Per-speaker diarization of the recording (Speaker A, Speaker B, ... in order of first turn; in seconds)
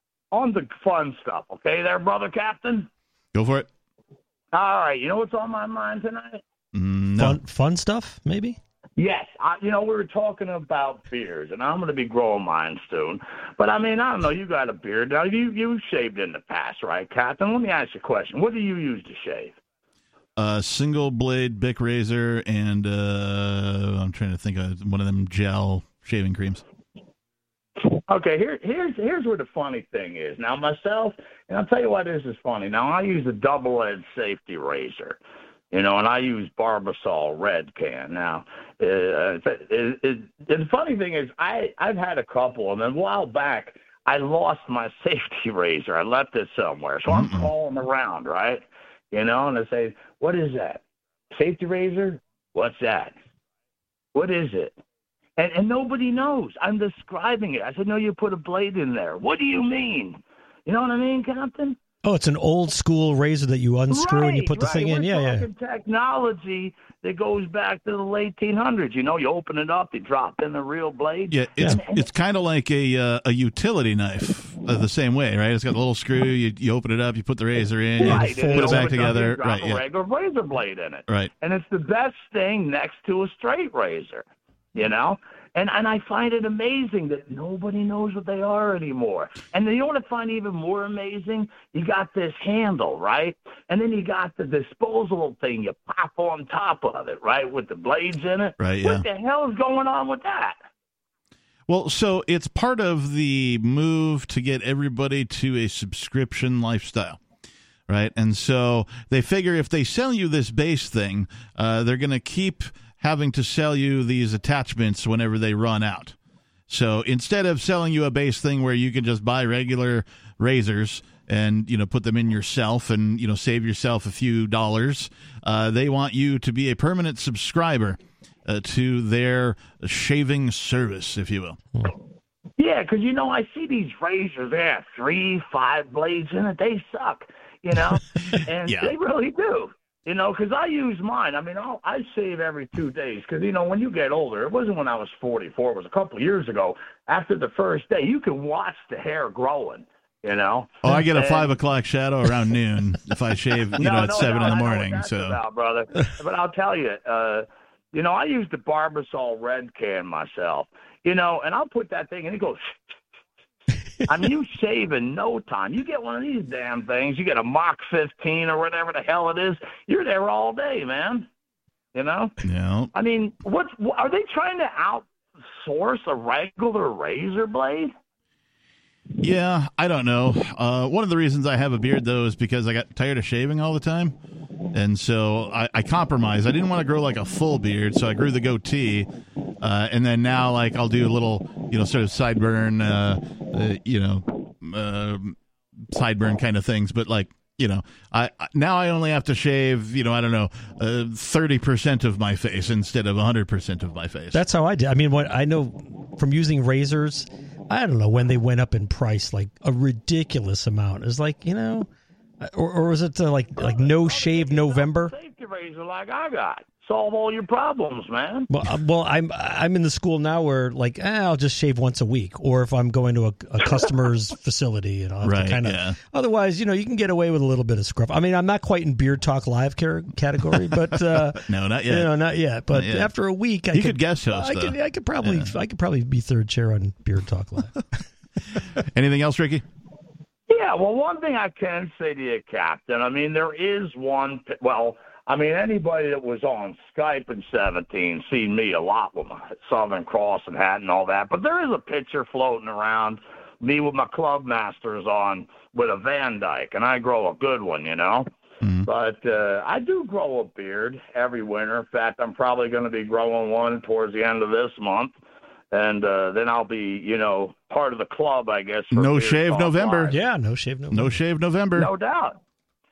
Speaker A: 0.3-2.9, 4.5-6.4, 9.0-19.6, 27.9-35.2, 35.7-53.2, 54.1-54.8, 55.4-61.8, 63.9-72.1, 78.0-100.6, 132.6-151.6, 153.7-162.9, 164.1-171.3, 171.9-172.3, 172.9-177.9, 213.6-218.5, 240.5-258.3, 258.8-265.1, 265.7-270.2, 271.7-272.4
Speaker B: 3.3-3.7, 6.7-7.4, 20.4-26.6, 47.1-47.5, 71.3-79.8, 98.6-99.0, 101.7-107.2, 107.9-116.2, 116.7-131.6, 138.7-138.9, 150.8-155.4, 172.4-172.9, 179.2-184.2, 184.7-189.1, 189.6-204.4, 225.2-226.0, 231.0-232.1, 232.7-233.1, 233.7-235.5, 238.8-239.7, 268.9-270.1, 270.9-271.9
Speaker C: 7.2-8.6, 62.0-65.5, 78.0-79.0, 204.3-211.9, 212.4-215.1, 218.5-237.9, 270.1-271.2